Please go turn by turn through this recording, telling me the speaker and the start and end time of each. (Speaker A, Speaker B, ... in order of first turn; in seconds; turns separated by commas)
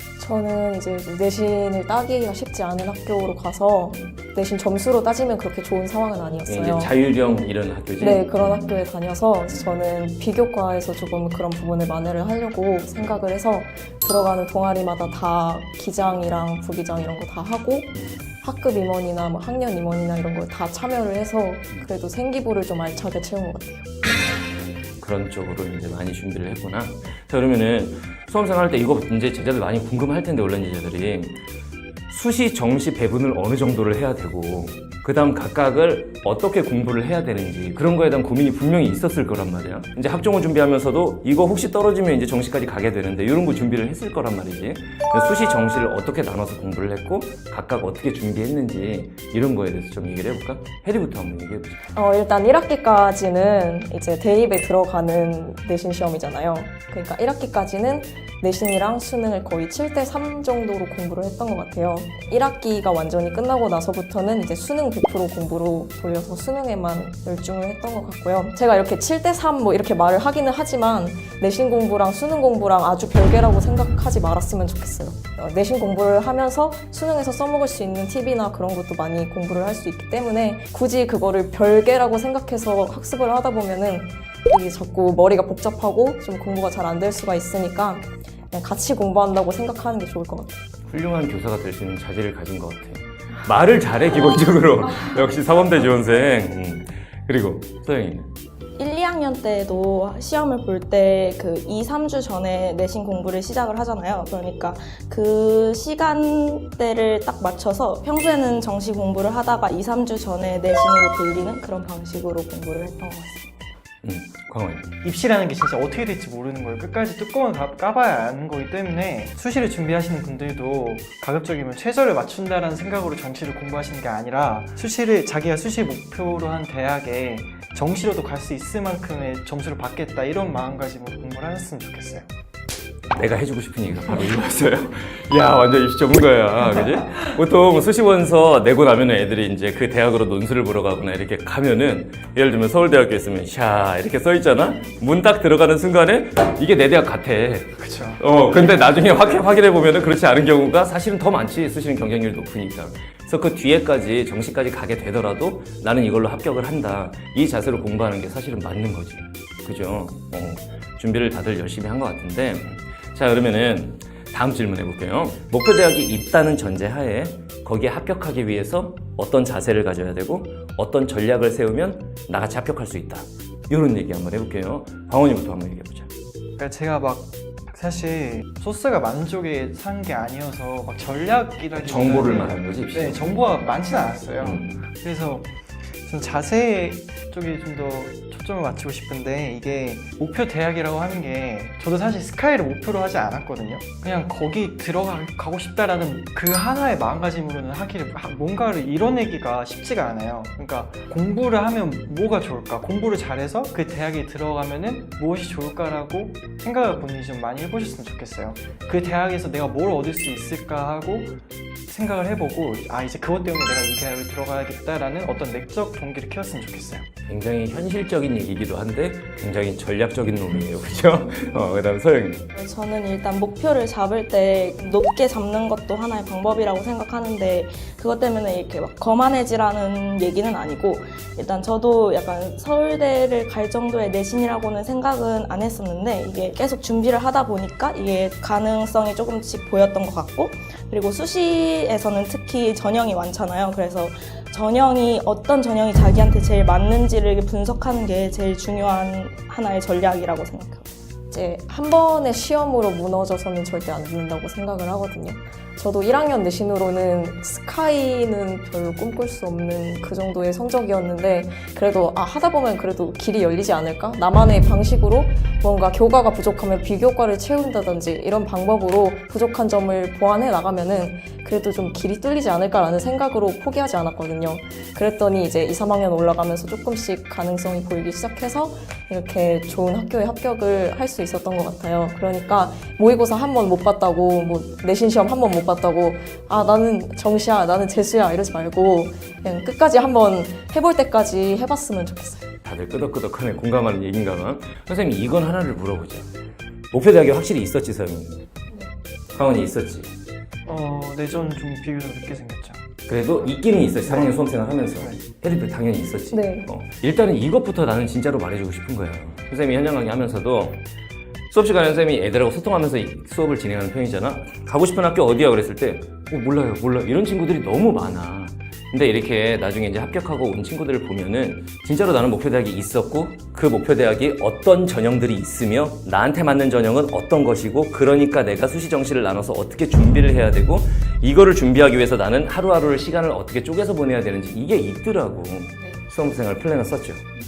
Speaker A: 0.2-6.9, Speaker B: 6.5-8.8, Speaker A: 8.0-23.9, Speaker B: 9.5-9.8, Speaker B: 24.1-31.4, Speaker B: 32.1-51.8, Speaker A: 51.9-90.6, Speaker B: 90.9-98.3, Speaker C: 98.8-113.5, Speaker B: 114.0-114.9, Speaker D: 115.0-132.2, Speaker B: 133.1-176.1, Speaker D: 147.8-148.2, Speaker D: 176.6-217.1, Speaker B: 181.8-183.4, Speaker B: 184.4-184.8, Speaker B: 217.3-222.5, Speaker C: 222.5-250.9, Speaker A: 251.3-292.5, Speaker B: 292.6-296.3, Speaker B: 296.9-298.4, Speaker B: 299.3-300.1, Speaker D: 300.6-302.8, Speaker B: 303.1-310.8, Speaker D: 304.0-304.4, Speaker A: 306.3-306.7, Speaker B: 311.5-337.2